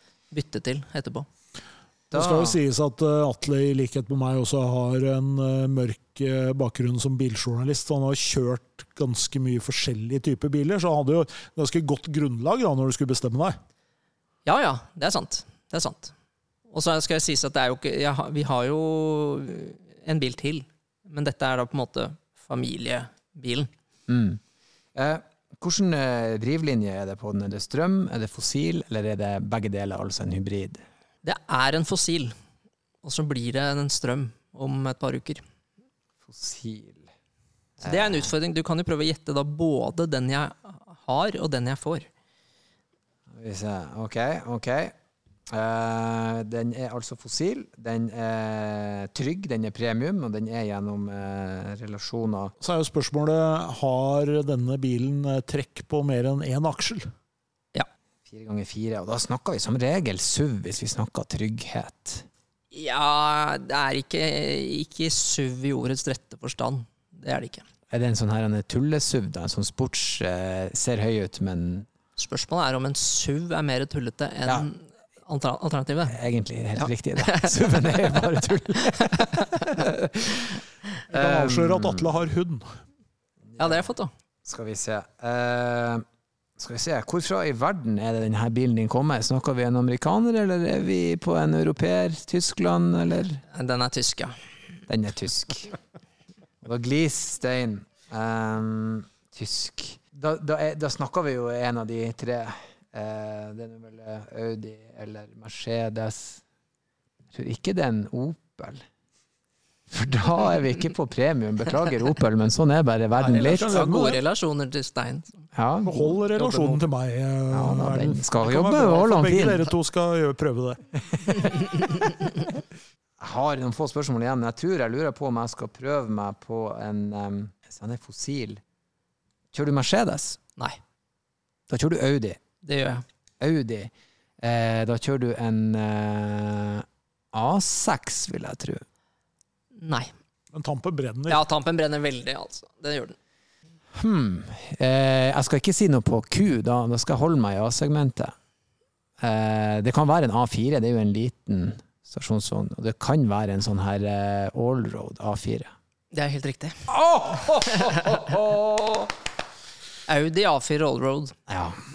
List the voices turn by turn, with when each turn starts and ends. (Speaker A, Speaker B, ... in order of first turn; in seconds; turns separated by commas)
Speaker A: 0.3-1.3, Speaker B: 2.1-2.6, Speaker C: 2.1-13.6, Speaker A: 14.4-16.1, Speaker A: 16.7-23.7, Speaker B: 24.1-24.4, Speaker B: 24.9-30.8, Speaker A: 31.2-32.3, Speaker A: 33.0-35.4, Speaker B: 36.2-37.1, Speaker B: 37.8-38.3, Speaker A: 37.8-42.1, Speaker B: 43.3-44.9, Speaker B: 45.5-52.5, Speaker C: 52.6-57.1, Speaker B: 58.3-62.2, Speaker A: 62.7-67.6, Speaker B: 67.9-71.9, Speaker A: 72.2-76.2, Speaker B: 76.1-80.6, Speaker A: 77.3-77.5, Speaker C: 81.1-82.8, Speaker B: 81.1-82.1, Speaker B: 83.5-83.8, Speaker A: 83.6-84.1, Speaker B: 84.5-86.0, Speaker B: 86.6-93.4, Speaker A: 93.5-94.4, Speaker B: 94.9-95.7, Speaker B: 96.6-106.4, Speaker B: 107.3-108.8, Speaker B: 109.9-113.8, Speaker C: 113.2-114.2, Speaker A: 113.3-115.5, Speaker B: 115.5-116.1, Speaker C: 115.8-121.5, Speaker A: 116.3-116.8, Speaker B: 117.5-119.7, Speaker B: 121.1-121.4, Speaker B: 123.2-128.6, Speaker B: 129.5-130.4, Speaker B: 131.7-132.4, Speaker A: 132.6-133.0, Speaker B: 133.4-138.8, Speaker A: 139.7-140.1, Speaker C: 140.5-141.4, Speaker A: 141.3-143.2, Speaker B: 143.9-148.3, Speaker B: 149.2-155.7, Speaker A: 156.1-156.9, Speaker B: 156.9-159.1, Speaker A: 157.7-158.3, Speaker A: 160.1-161.4, Speaker B: 161.5-161.8